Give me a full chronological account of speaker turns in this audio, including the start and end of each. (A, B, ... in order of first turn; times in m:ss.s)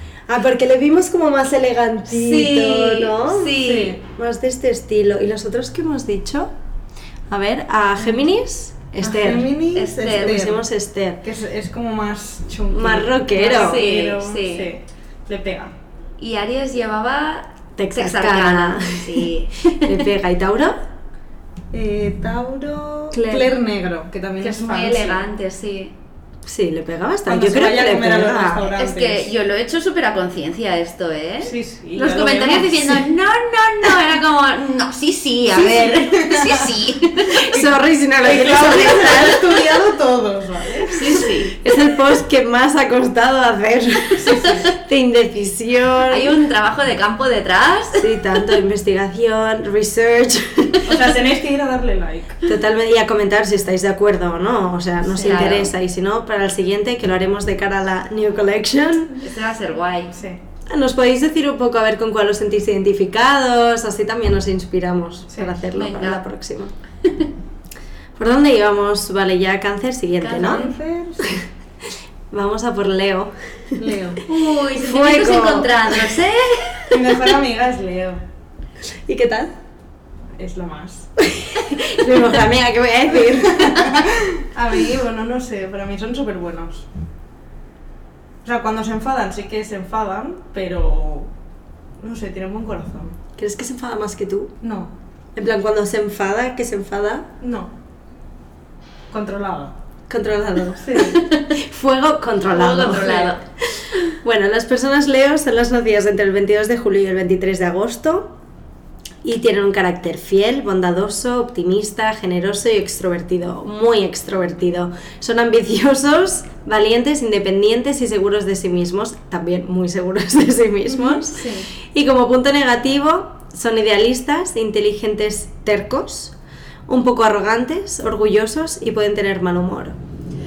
0:00.3-0:06.5 A
0:02.1-0:04.0 B
0:03.6-0:04.0 C
0:07.3-0:09.5 A
0:09.0-0:10.6 C
0:09.7-0:10.4 B
0:10.2-0:11.2 A
0:11.2-0:15.7 C
0:12.7-0:13.8 A
0:13.4-0:14.7 B
0:16.2-0:20.0 B
0:17.8-0:20.8 A
0:21.7-0:25.2 C
0:23.1-0:23.5 A
0:24.4-0:25.9 B
0:26.4-0:28.7 A
0:27.3-0:29.3 C
0:28.7-0:37.4 B
0:31.4-0:33.0 C
0:35.6-0:36.8 C
0:37.3-0:39.6 A
0:37.5-0:41.2 C
0:40.9-0:41.5 B
0:41.5-0:46.3 A
0:44.2-0:44.7 C
0:46.1-0:48.1 B
0:48.0-0:51.0 A
0:50.8-0:52.4 C
0:52.4-0:59.2 A
0:55.1-0:55.5 C
0:55.2-0:55.7 B
0:59.2-1:00.2 B
1:00.1-1:00.4 C
1:00.6-1:06.7 A
1:05.3-1:05.6 C
1:05.7-1:06.2 B
1:08.2-1:10.6 A
1:10.2-1:10.7 B
1:10.3-1:11.4 C
1:12.3-1:13.8 A
1:13.8-1:14.2 C
1:14.3-1:17.0 B
1:14.6-1:16.1 A
1:16.9-1:18.2 C
1:19.0-1:19.5 A
1:20.4-1:21.1 C
1:21.2-1:24.1 A
1:23.3-1:26.9 C
1:28.4-1:31.3 C
1:32.0-1:33.2 C
1:33.4-1:34.5 A
1:34.6-1:34.9 C
1:35.3-1:37.3 A
1:37.4-1:37.7 C
1:39.1-1:39.7 C
1:40.1-1:41.0 A
1:40.8-1:41.2 C
1:41.1-1:41.6 B
1:41.5-1:48.3 A
1:42.5-1:43.4 B
1:43.0-1:43.3 C
1:49.2-2:06.3 A
2:01.3-2:01.7 B
2:06.9-2:10.0 A